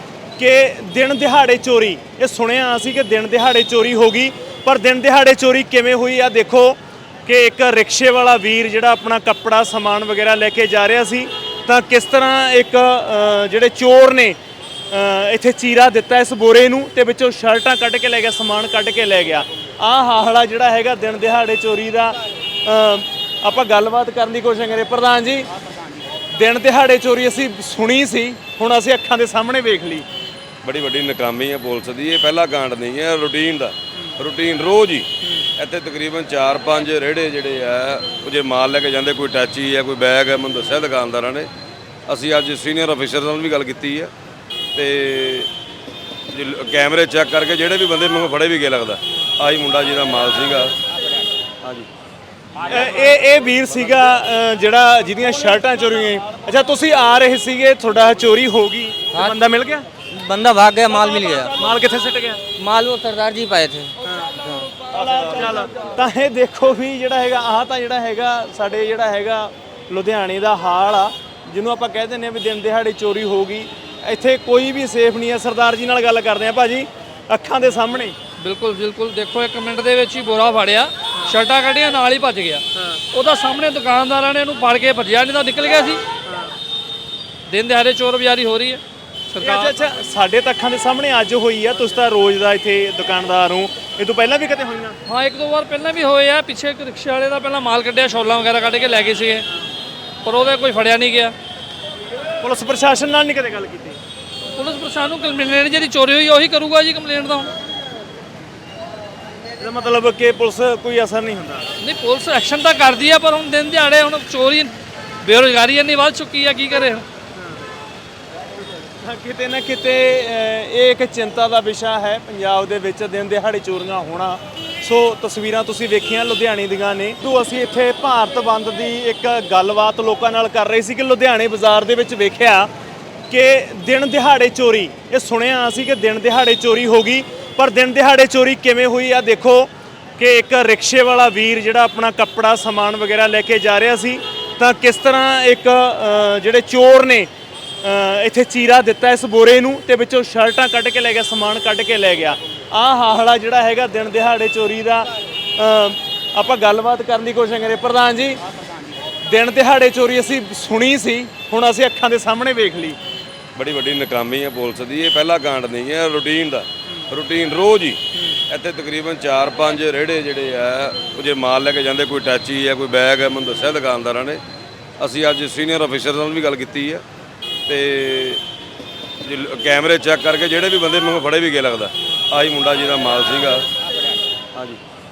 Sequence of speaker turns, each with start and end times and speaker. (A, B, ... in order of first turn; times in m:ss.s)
0:00.4-0:14.4 A
0:14.9-0:25.5 A
0:26.3-0:30.1 A
0:30.6-0:41.5 B
0:42.1-0:44.1 B
0:44.8-0:45.5 B
0:46.3-0:50.8 B
0:51.6-0:51.9 B
0:52.6-0:59.9 A
1:00.1-1:01.6 C
1:01.6-1:02.4 A
1:02.6-1:04.7 C
1:04.0-1:04.3 A
1:05.0-1:18.2 A
1:18.4-1:26.0 D
1:22.8-1:23.0 A
1:26.3-1:26.6 A
1:27.5-1:29.8 D
1:29.4-1:35.0 A
1:35.1-1:39.5 D
1:40.2-1:41.4 D
1:42.4-1:44.0 A
1:44.6-1:47.5 D
1:49.6-1:51.7 A
1:51.8-1:54.7 D
1:55.2-1:57.0 D
1:57.4-1:57.6 A
1:59.0-2:12.7 A
2:13.3-2:27.3 A
2:27.8-2:38.4 A
2:39.2-2:43.0 A
2:43.6-2:54.4 B
2:55.0-2:57.0 B
2:57.7-2:58.4 B
2:59.2-3:03.7 B